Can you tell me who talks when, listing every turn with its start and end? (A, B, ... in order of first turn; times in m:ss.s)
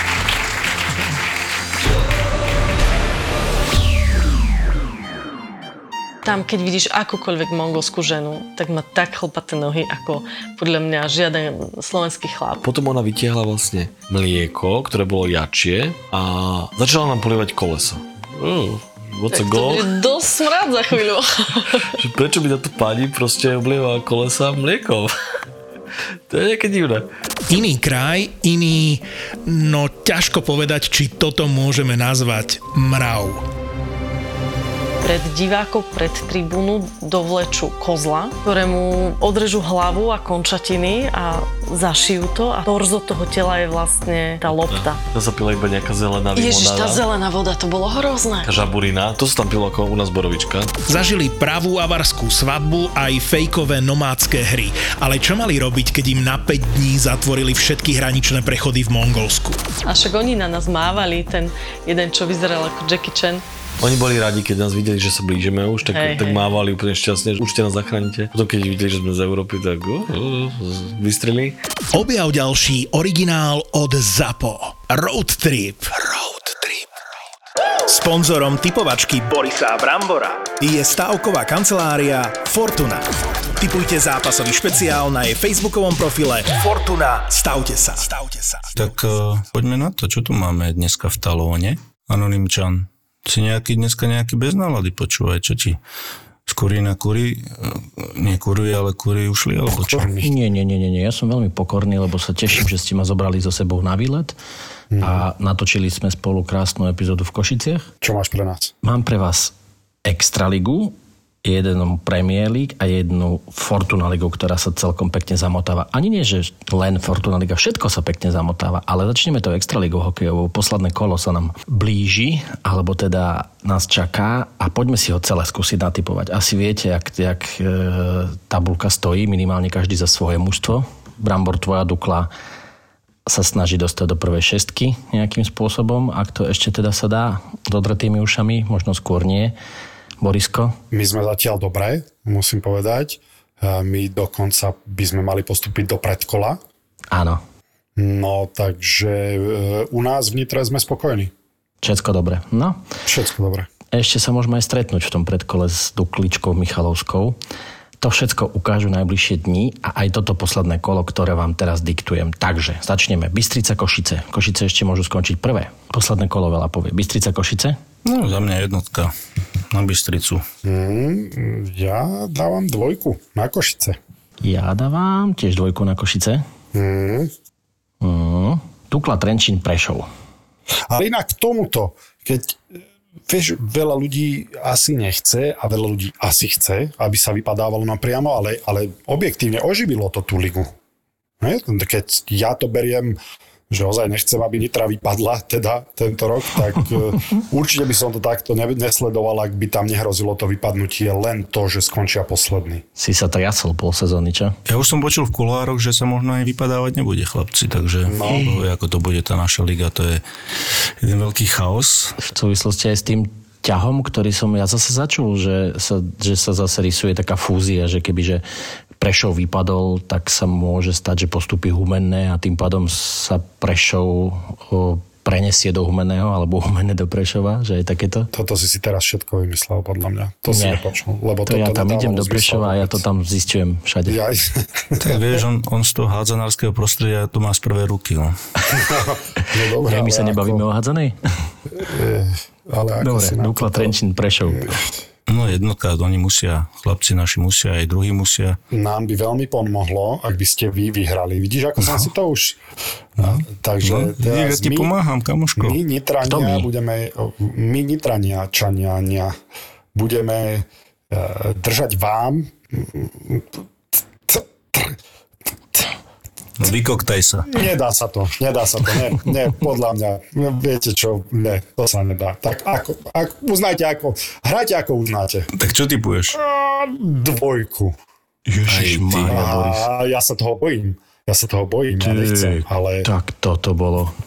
0:06.2-0:12.6 A
0:12.6-0:19.9 B
0:19.3-0:21.9 A
0:22.0-0:25.1 B
0:26.3-0:27.1 B
0:27.5-0:33.4 C
0:35.0-0:45.0 A
0:44.5-0:47.0 B
0:46.4-0:48.5 A
0:48.4-0:50.8 B
0:50.9-0:59.6 C
0:59.8-1:03.4 A
1:03.8-1:11.6 B
1:05.9-1:06.4 A
1:11.9-1:16.9 C
1:17.9-1:28.8 C
1:28.8-1:35.8 D
1:36.5-1:40.1 D
1:39.7-1:40.3 E
1:40.2-1:44.4 F
1:44.9-1:45.3 E
1:45.0-1:47.9 F
1:48.0-1:48.7 E
1:48.8-1:49.5 F
1:50.0-2:12.3 F
2:13.3-2:19.6 F
2:20.2-2:20.8 F
2:20.9-2:26.6 E
2:27.1-2:27.4 F
2:28.0-2:31.3 E
2:31.8-2:32.8 F
2:33.1-2:33.7 E
2:33.9-2:37.4 F
2:38.0-2:47.8 F
2:48.0-2:49.1 D
2:49.7-2:50.4 D
2:50.6-2:54.0 E
2:54.4-2:56.4 F
2:56.7-2:57.3 E
2:58.0-3:00.1 F
3:00.9-3:10.7 E
3:11.4-3:13.2 E
3:13.7-3:22.8 E
3:23.0-3:24.6 F
3:24.7-3:30.2 D
3:28.1-3:28.6 E
3:31.0-3:32.2 D
3:32.2-3:38.4 F
3:39.0-3:48.3 F
3:48.3-3:53.0 E
3:50.5-3:50.8 F
3:51.5-3:54.2 F
3:54.1-3:55.2 E
3:55.0-3:58.4 D
3:58.7-4:00.7 E
3:59.8-4:01.2 F
4:01.8-4:04.0 E
4:03.0-4:04.8 F
4:04.5-4:04.8 E
4:05.3-4:08.6 D
4:08.7-4:12.6 E
4:13.2-4:15.8 D
4:13.2-4:14.9 E
4:15.6-4:19.4 E
4:16.2-4:16.7 F
4:19.9-4:23.5 E
4:24.3-4:25.0 E
4:26.6-4:27.5 D
4:27.5-4:35.5 E
4:35.6-4:36.4 D
4:36.3-4:38.0 E
4:38.6-4:39.9 F
4:38.6-4:39.3 D
4:39.3-4:43.1 E
4:42.0-4:44.1 F